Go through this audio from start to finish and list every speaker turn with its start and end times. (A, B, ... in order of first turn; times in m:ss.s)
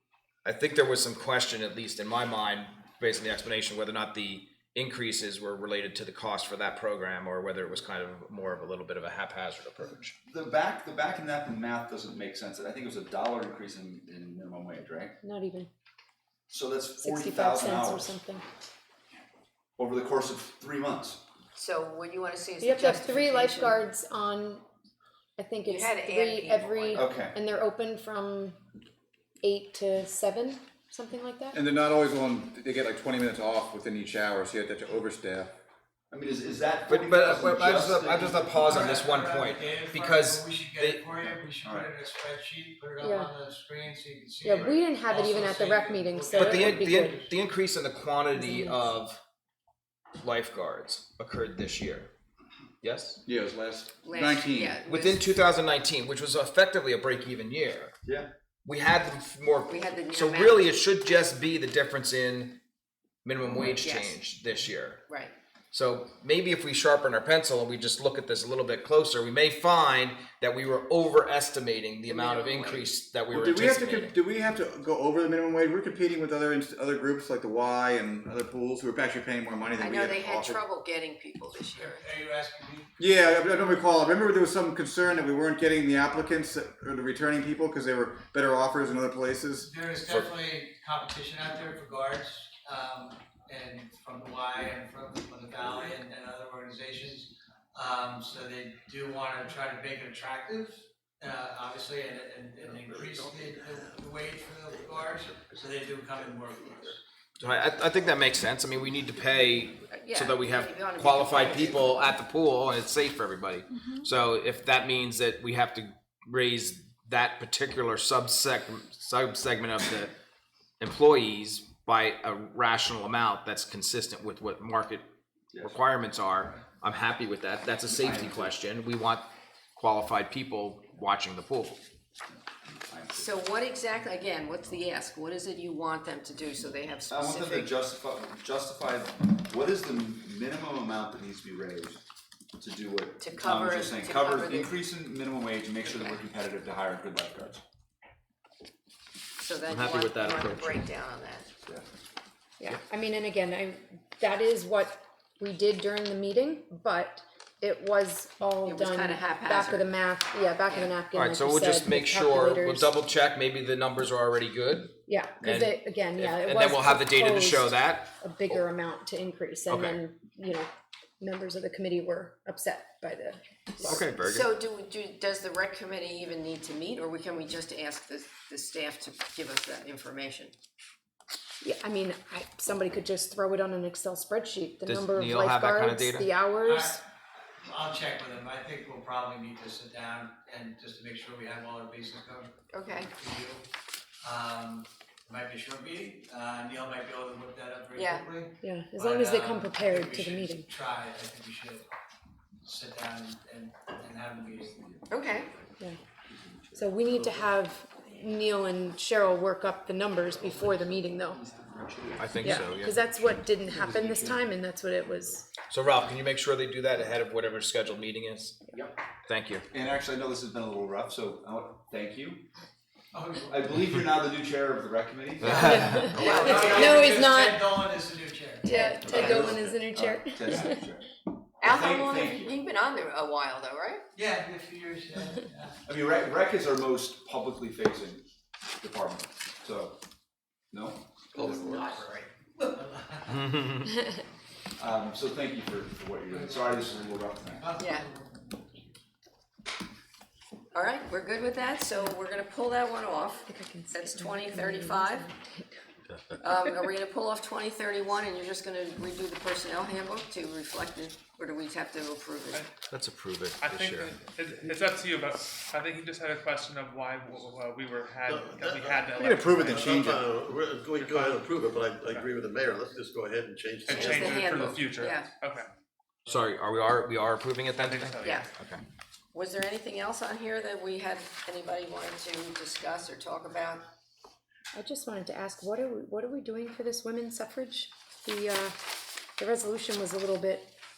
0:00.4-0:10.1 A
0:10.2-0:15.2 B
0:15.2-0:15.7 C
0:16.5-0:18.1 B
0:17.0-0:18.4 C
0:19.8-0:21.2 B
0:21.5-0:23.8 D
0:22.6-0:24.6 C
0:25.4-0:28.6 C
0:25.6-0:27.1 D
0:26.9-0:27.4 B
0:29.4-0:31.6 C
0:31.5-0:35.5 E
0:36.1-0:38.7 B
0:36.9-0:41.0 A
0:38.6-0:47.3 F
0:41.5-0:41.9 B
0:43.0-0:43.3 C
0:44.4-0:47.2 C
0:46.3-0:49.2 A
0:48.3-0:48.9 C
0:50.2-0:52.1 A
0:52.8-0:53.2 A
0:53.2-0:54.8 E
0:54.0-0:55.3 D
0:54.8-0:57.9 A
0:58.0-0:58.3 B
0:58.6-1:02.6 A
0:59.7-1:00.9 D
1:03.2-1:05.0 A
1:03.8-1:04.2 D
1:05.1-1:05.3 D
1:05.7-1:14.2 A
1:12.0-1:12.9 D
1:13.3-1:20.6 E
1:19.8-1:22.1 D
1:21.8-1:22.9 F
1:23.0-1:29.7 E
1:29.6-1:47.0 F
1:42.6-1:44.0 G
1:44.9-1:46.7 G
1:47.4-2:00.1 A
1:49.8-1:52.1 D
2:00.8-2:05.1 A
2:05.5-2:05.8 B
2:05.6-2:11.8 A
2:08.0-2:08.5 B
2:12.6-2:13.3 B
2:13.1-2:17.7 D
2:17.1-2:22.0 B
2:22.6-2:27.6 B
2:23.2-2:24.8 D
2:29.4-2:31.5 D
2:29.7-2:30.8 A
2:32.6-2:42.9 C
2:38.6-2:39.9 D
2:40.6-2:41.0 D
2:41.1-2:48.6 A
2:45.1-2:50.7 C
2:49.7-2:50.0 A
2:51.2-2:54.1 C
2:53.8-2:54.5 A
2:54.3-3:00.5 D
3:01.6-3:07.0 C
3:04.8-3:06.3 A
3:06.6-3:07.0 F
3:07.6-3:13.6 F
3:12.7-3:13.1 D
3:14.2-3:21.8 F
3:17.9-3:18.3 D
3:18.6-3:20.7 C
3:22.6-3:24.8 F
3:24.6-3:25.6 B
3:25.1-3:25.5 D
3:26.3-3:27.5 B
3:26.7-3:31.4 C
3:30.4-3:32.6 B
3:32.2-3:32.9 A
3:32.4-3:35.5 C
3:33.7-3:34.4 B
3:35.7-3:38.6 A
3:39.3-3:39.6 A
3:39.7-3:42.4 B
3:43.1-3:43.7 F
3:43.4-3:46.3 B
3:45.4-3:46.2 A
3:45.4-3:48.7 F
3:45.6-3:47.7 C
3:46.2-3:47.0 D
3:48.6-3:50.8 C
3:48.6-3:49.6 D
3:49.1-3:51.1 B
3:51.6-3:54.0 D
3:51.6-3:52.5 B
3:54.2-3:55.8 F
3:55.8-3:58.2 B
3:58.8-4:00.0 B
4:00.7-4:01.6 B
4:01.3-4:03.4 F
4:01.4-4:01.8 D
4:03.3-4:03.9 A
4:04.8-4:07.8 B
4:06.3-4:08.8 F
4:07.8-4:08.1 D
4:10.7-4:15.3 D
4:13.5-4:15.8 C
4:16.1-4:16.4 A
4:16.4-4:22.7 D
4:22.9-4:24.2 A
4:23.6-4:29.8 H
4:28.2-4:34.7 G
4:29.2-4:30.2 E
4:31.0-4:31.4 H
4:33.9-4:35.7 H
4:33.9-4:35.3 D
4:36.3-4:38.8 A
4:37.8-4:38.4 H
4:38.2-4:38.5 D
4:39.3-4:43.9 D
4:44.7-4:48.8 C
4:49.4-4:50.7 C